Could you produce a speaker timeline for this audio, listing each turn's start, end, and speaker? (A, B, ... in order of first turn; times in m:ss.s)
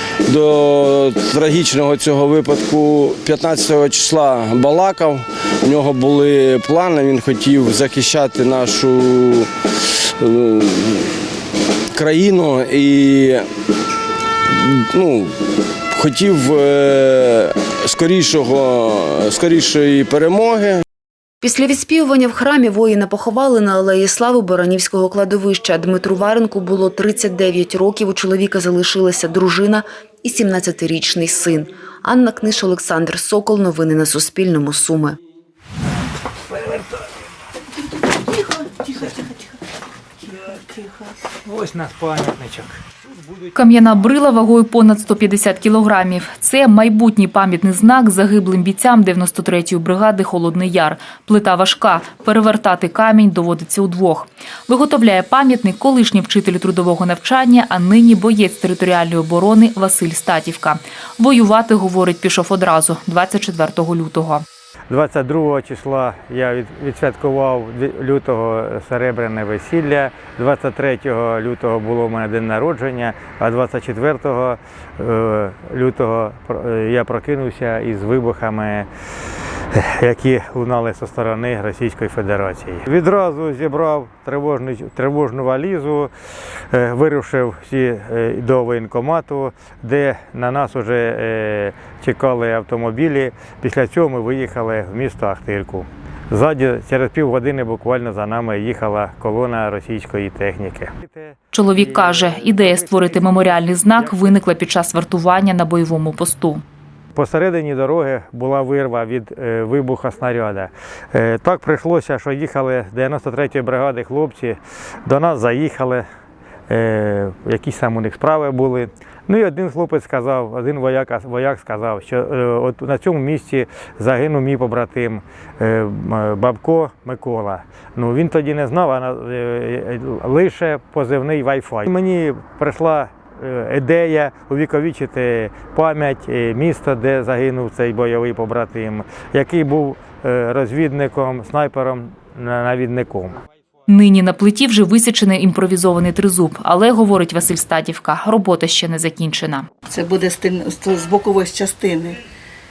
0:00.2-0:09.5 A
0:10.2-0:11.0 A
0:11.9-0:13.4 A
0:14.6-0:15.3 A
0:15.9-0:20.8 A
0:21.4-0:35.2 B
0:40.4-0:40.8 C
0:41.4-0:42.8 D
0:43.5-1:04.4 E
1:04.9-1:18.9 D
1:19.7-1:26.1 D
1:26.7-1:44.2 D
1:41.5-1:46.6 E
1:47.1-1:56.0 D
1:56.7-2:23.3 D
2:23.9-2:29.7 E
2:29.9-2:32.2 C